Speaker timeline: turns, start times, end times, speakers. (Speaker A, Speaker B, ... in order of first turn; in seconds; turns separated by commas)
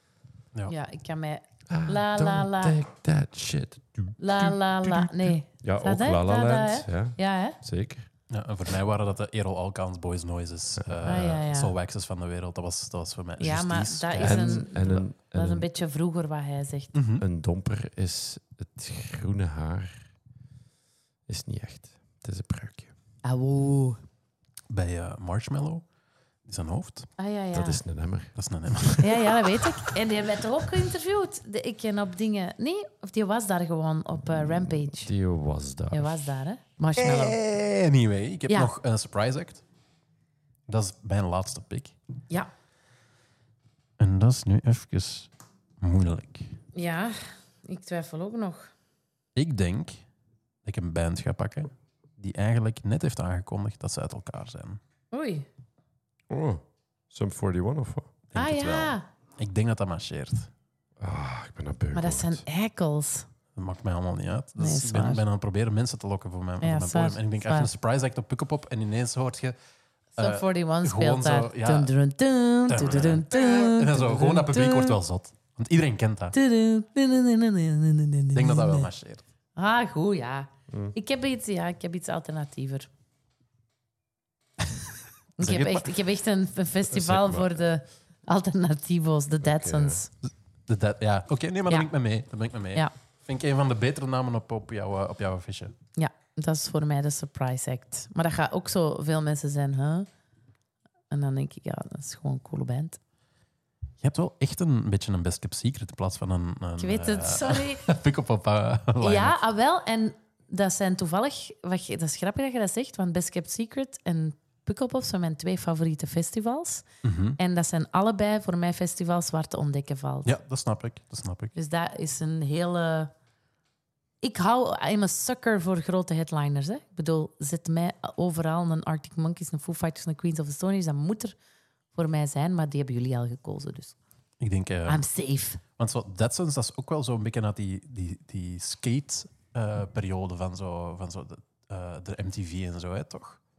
Speaker A: 0.7-2.8, Speaker B: 1.7-4.2, Speaker A: 4.2-7.6, Speaker B: 5.6-8.1, Speaker C: 8.3-14.7, Speaker B: 10.8-11.4, Speaker A: 11.1-11.7, Speaker A: 13.4-17.0, Speaker B: 14.2-15.7, Speaker C: 16.9-17.2, Speaker B: 17.2-20.0, Speaker B: 21.3-22.9, Speaker A: 23.2-24.0, Speaker C: 24.7-25.9, Speaker C: 26.4-27.1, Speaker A: 27.2-27.8, Speaker B: 27.5-28.4, Speaker C: 28.4-29.5, Speaker A: 29.0-35.1, Speaker B: 35.0-36.3, Speaker A: 35.9-37.4, Speaker C: 37.0-39.6, Speaker C: 40.7-42.0, Speaker C: 44.0-45.3, Speaker C: 45.8-46.5, Speaker A: 46.7-48.7, Speaker C: 49.4-50.0, Speaker C: 50.6-54.8, Speaker A: 55.1-55.5, Speaker B: 56.3-58.2, Speaker C: 58.3-60.5, Speaker A: 58.4-59.1, Speaker B: 61.0-62.4, Speaker A: 61.9-63.3, Speaker C: 63.5-69.6, Speaker A: 64.6-65.2, Speaker A: 66.6-67.7, Speaker C: 70.2-71.9, Speaker A: 70.2-75.0, Speaker C: 72.7-76.4, Speaker A: 76.3-78.9, Speaker C: 78.3-79.2, Speaker A: 79.6-82.9, Speaker B: 80.7-81.0, Speaker A: 85.4-90.1, Speaker C: 85.4-86.0, Speaker B: 86.9-87.5, Speaker B: 89.4-90.0, Speaker C: 90.3-95.8, Speaker A: 96.0-100.1, Speaker A: 101.1-103.0, Speaker C: 104.0-109.4, Speaker A: 106.8-107.9, Speaker A: 109.0-116.8, Speaker C: 117.0-117.4, Speaker A: 117.4-120.3, Speaker C: 120.2-121.5, Speaker A: 121.5-123.1, Speaker A: 124.2-131.3, Speaker A: 131.9-134.0, Speaker C: 134.4-135.0, Speaker A: 134.9-135.6, Speaker C: 135.8-143.4